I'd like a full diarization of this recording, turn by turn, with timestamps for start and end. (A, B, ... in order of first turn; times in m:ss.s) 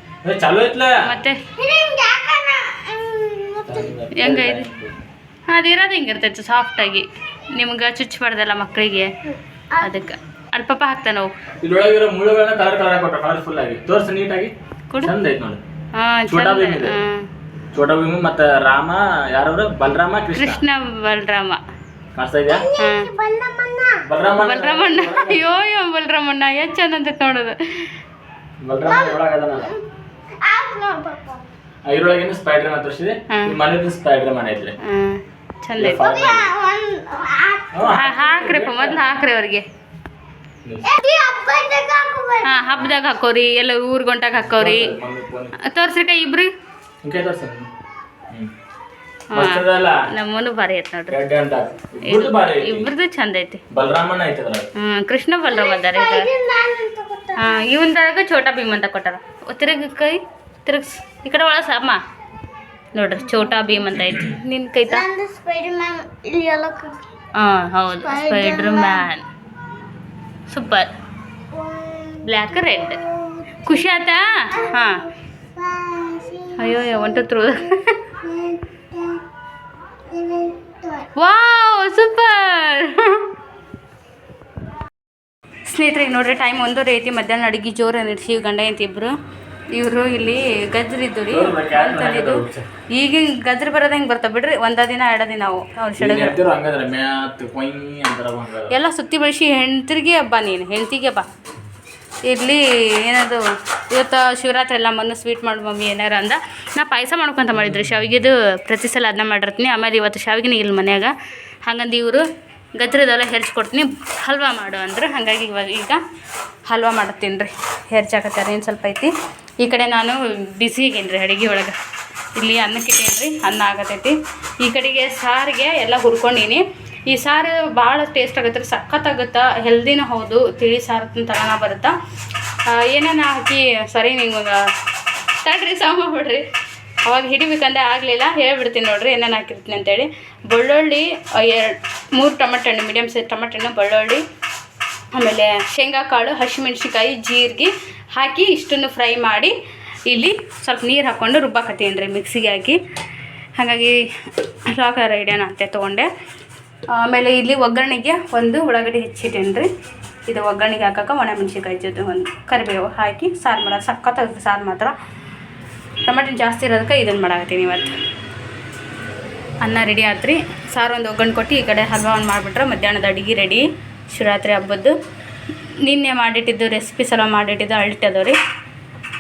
0:00.2-0:01.1 A
0:01.0-0:01.4 B
0:01.6-0:03.9 C
0:03.6-0:05.0 A
0:04.1-0:04.7 B
0:05.5-0:09.1 B
0:09.8-0:11.3 B
0:11.6-0:15.6 A
0:16.0-0:17.3 B
0:16.3-0:17.0 A
0:17.7-0:20.6 A
0:20.4-0:21.6 B
0:22.2-0:22.7 A
0:22.6-0:24.1 C
0:22.8-0:23.1 B
0:24.0-0:25.4 A
0:24.4-0:27.9 B
0:28.6-0:29.7 A
0:28.8-0:29.8 C
0:30.4-0:31.5 C
0:31.9-0:34.8 A
0:33.3-0:33.6 B
0:34.8-0:36.2 B
0:35.8-0:36.5 A
0:36.0-0:38.2 C
0:37.7-0:39.1 A
0:37.9-0:39.6 B
0:40.6-0:40.9 A
0:40.8-0:42.9 C
0:42.4-0:44.9 B
0:44.4-0:45.5 A
0:45.6-0:46.5 B
0:47.0-0:47.7 A
0:49.3-0:50.0 A
0:49.3-0:51.2 B
0:51.1-0:52.9 A
0:52.1-0:53.6 B
0:53.7-0:54.7 A
0:54.8-0:56.3 B
0:55.5-0:57.6 C
0:57.4-1:02.0 B
1:03.0-1:05.1 B
1:04.9-1:07.0 C
1:07.4-1:09.2 B
1:08.0-1:09.1 C
1:10.5-1:10.9 B
1:11.5-1:13.5 C
1:12.2-1:13.0 B
1:13.6-1:15.0 B
1:14.6-1:14.8 C
1:15.6-1:17.7 C
1:16.6-1:17.9 B
1:18.2-1:19.2 C
1:20.1-1:21.1 C
1:21.2-1:23.3 B
1:25.7-1:29.2 B
1:29.7-1:36.4 B
1:31.3-1:32.7 A
1:36.0-1:38.8 A
1:38.7-1:41.3 B
1:42.2-1:52.2 B
1:47.6-1:48.0 A
1:52.8-1:56.0 B
1:56.7-2:01.8 B
2:02.4-2:12.0 B
2:12.7-2:14.7 B
2:15.4-2:16.4 B
2:17.0-2:24.2 B
2:25.1-2:29.6 B
2:30.1-2:32.8 B
2:33.6-2:34.0 B
2:34.7-2:36.1 B
2:36.9-2:39.7 B
2:40.3-2:44.9 B
2:46.0-2:47.9 B
2:49.6-2:54.9 B
2:55.8-2:58.4 B